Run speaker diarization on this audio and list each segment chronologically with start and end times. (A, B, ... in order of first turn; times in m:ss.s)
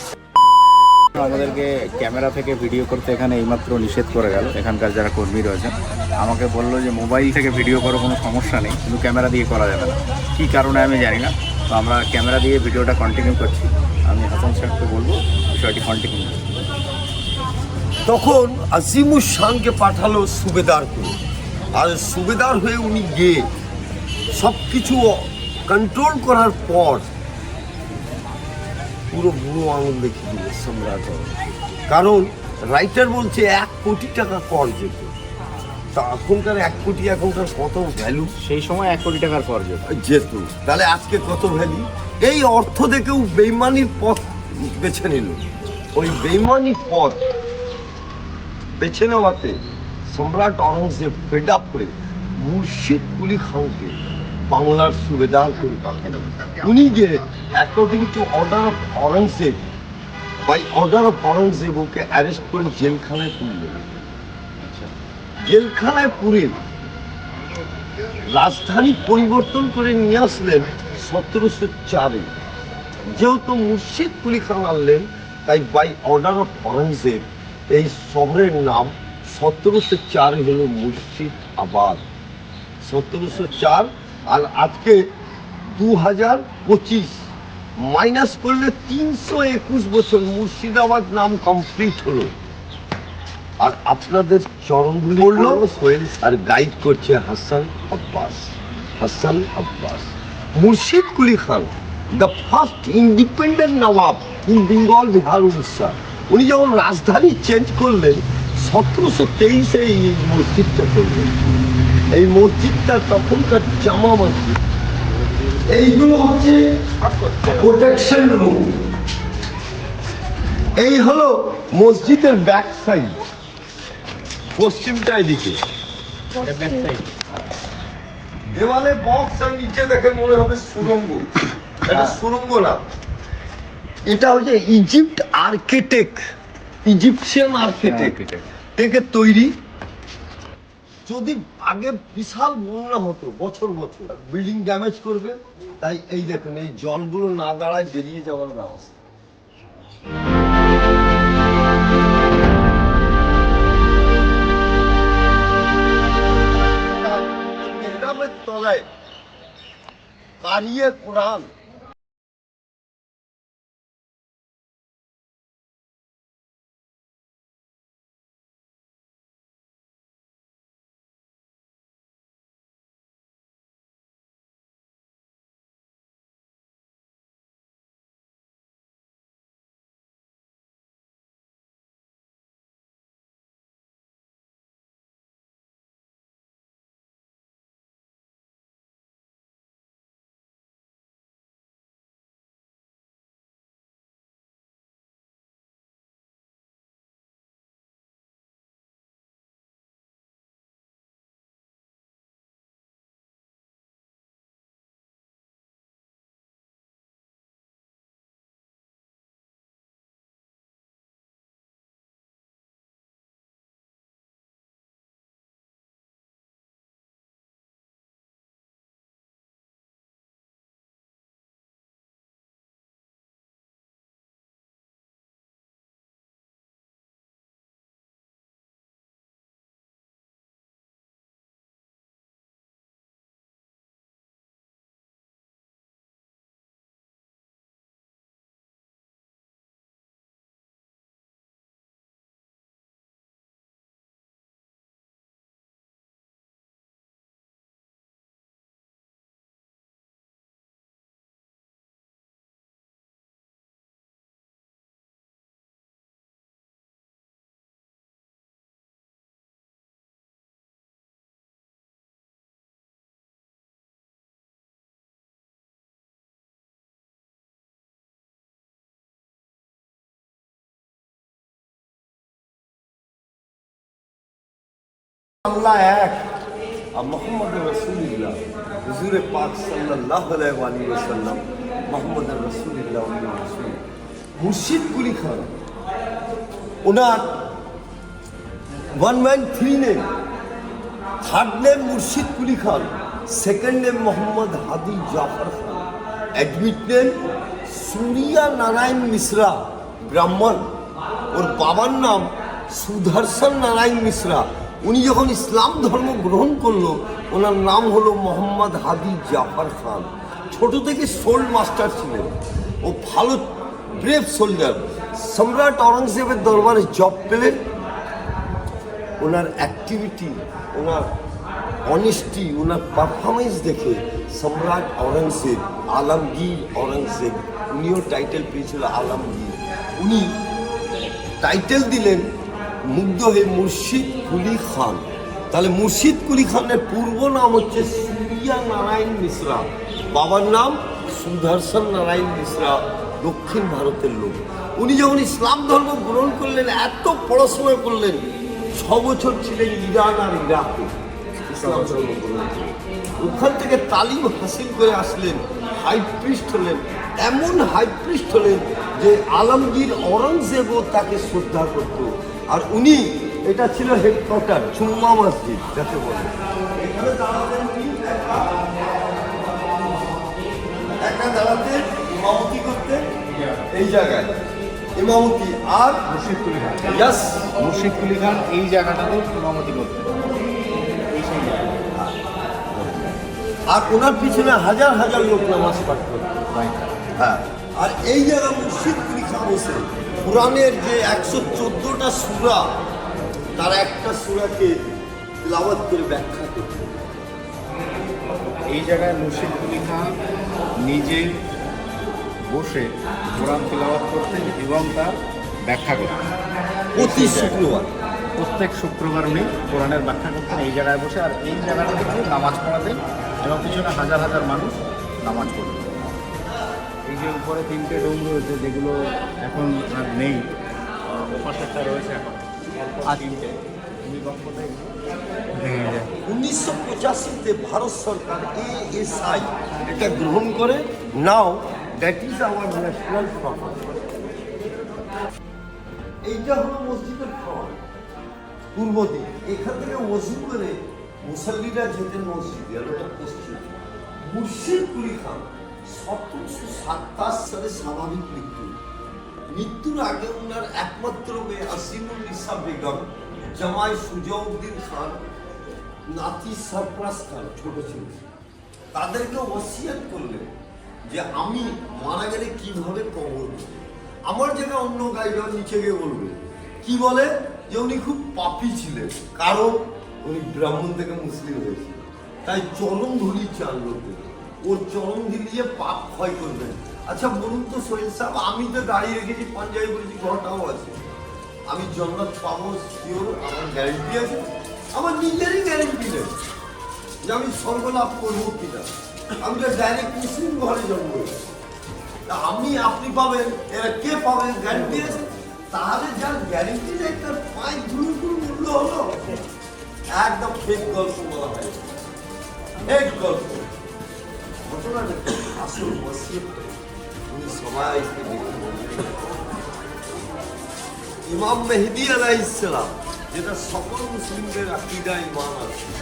0:01.1-0:16.4 A
0:18.0-0:21.2 B
0:21.7-0:23.5 B
0:24.3-0:27.1 B
0:29.1-0:31.4 B
0:31.9-0:35.1 B
0:35.9-0:38.3 B
0:38.4-0:39.8 A
0:39.9-0:47.2 B
0:48.8-0:59.6 B
1:00.4-1:03.9 B
1:04.6-1:04.9 A
1:05.4-1:06.6 B
1:08.3-1:12.3 B
1:13.1-1:22.0 B
1:22.8-1:25.1 B
1:25.6-1:32.3 B
1:33.6-1:54.6 B
1:55.5-1:56.8 B
1:57.3-1:58.8 B
2:00.8-2:03.2 B
2:04.5-2:05.6 B
2:06.3-2:07.1 A
2:08.5-2:11.3 B
2:11.8-2:12.8 B
2:14.1-2:16.2 B
2:16.8-2:19.6 B
2:17.8-2:18.4 A
2:21.0-2:29.0 B
2:36.8-2:38.9 B
2:40.4-2:41.5 B
4:35.4-4:36.0 B
4:35.6-4:36.2 A
4:36.9-4:43.8 B
4:44.4-4:45.5 B
4:46.8-4:47.4 B
4:48.9-4:50.1 B
4:51.2-5:00.7 B
5:01.3-5:17.6 B
5:19.2-5:21.1 B
5:21.8-5:30.4 B
5:31.4-5:32.3 B
5:32.8-5:50.9 B
5:51.5-6:10.1 B
5:51.6-5:52.0 A
6:11.0-6:13.1 B
6:13.7-6:16.1 B
6:16.1-6:17.0 A
6:16.8-6:17.5 B
6:17.6-6:20.4 A
6:21.1-6:21.9 A
6:22.7-6:23.0 B
6:23.7-6:26.3 B
6:26.5-6:26.9 A
6:27.2-6:32.8 B
6:33.6-6:36.9 B
6:38.7-6:40.1 A
6:40.8-6:41.3 A
6:42.5-6:45.2 A
6:45.7-6:46.3 A
6:46.9-6:47.6 A
6:46.9-6:47.9 B
6:48.4-6:56.2 A
6:57.1-7:00.4 A
7:01.2-7:02.5 A
7:03.0-7:05.0 A
7:05.5-7:06.1 A
7:06.2-7:14.0 B
7:16.2-7:17.8 B
7:18.7-7:28.8 B
7:29.5-7:35.2 B
7:36.1-7:38.2 B
7:38.9-7:40.5 B
7:41.1-8:01.0 B
8:01.7-8:06.4 B
8:07.2-8:11.5 B
8:12.3-8:19.4 B
8:20.1-8:21.8 B
8:22.8-8:23.7 B
8:24.6-8:26.8 B
8:27.3-8:29.3 B
8:31.3-8:35.8 B